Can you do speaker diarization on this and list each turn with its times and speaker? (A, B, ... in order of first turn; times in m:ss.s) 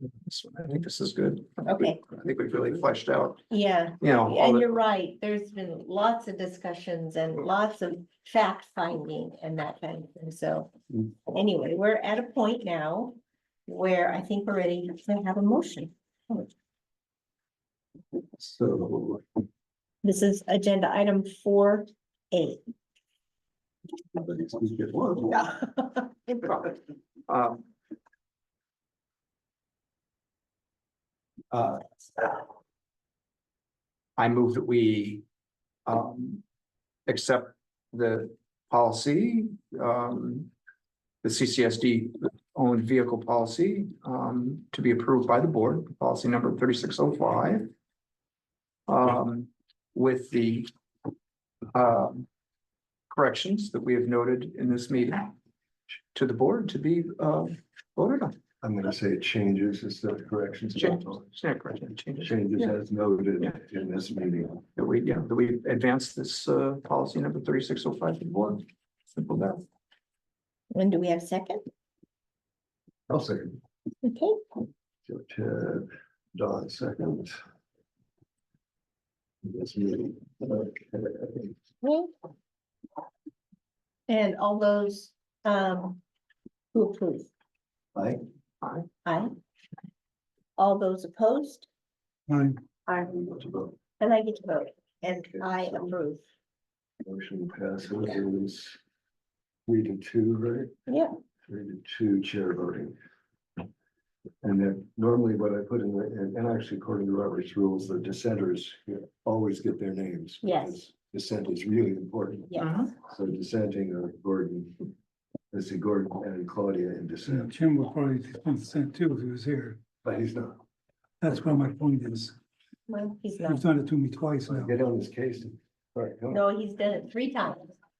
0:00.2-0:03.5 A
0:01.6-0:02.0 B
0:03.5-0:10.7 B
0:04.0-0:04.8 A
0:11.3-0:13.2 B
0:13.7-0:16.4 B
0:18.4-0:19.3 C
0:20.0-0:22.6 B
0:24.2-0:25.5 C
0:27.3-0:27.6 A
0:31.5-0:32.4 A
0:34.2-0:35.2 A
0:35.9-0:36.4 A
0:37.1-0:40.5 A
0:41.2-0:47.7 A
0:48.9-0:50.7 A
0:51.7-0:52.3 A
0:53.1-0:55.3 A
0:56.1-0:58.4 A
0:58.6-1:01.3 C
1:00.8-1:02.4 A
1:02.2-1:04.6 C
1:04.8-1:09.6 A
1:10.7-1:11.6 B
1:13.1-1:13.6 C
1:14.0-1:14.4 B
1:15.1-1:17.4 C
1:19.4-1:21.5 C
1:21.8-1:22.1 B
1:24.1-1:26.0 B
1:26.7-1:27.3 B
1:28.0-1:28.2 C
1:29.0-1:29.3 B
1:30.6-1:31.7 B
1:32.3-1:32.6 D
1:33.0-1:33.8 C
1:34.0-1:36.2 B
1:35.4-1:35.8 C
1:37.0-1:38.8 C
1:39.7-1:40.7 C
1:41.5-1:43.0 C
1:44.4-1:54.8 C
1:50.4-1:50.8 B
1:52.5-1:52.8 B
1:52.6-1:52.9 A
1:55.5-1:57.6 C
1:57.3-1:59.8 D
2:00.0-2:00.6 C
2:01.2-2:02.4 D
2:02.9-2:03.6 B
2:03.4-2:04.7 D
2:04.4-2:06.4 C
2:06.3-2:07.8 B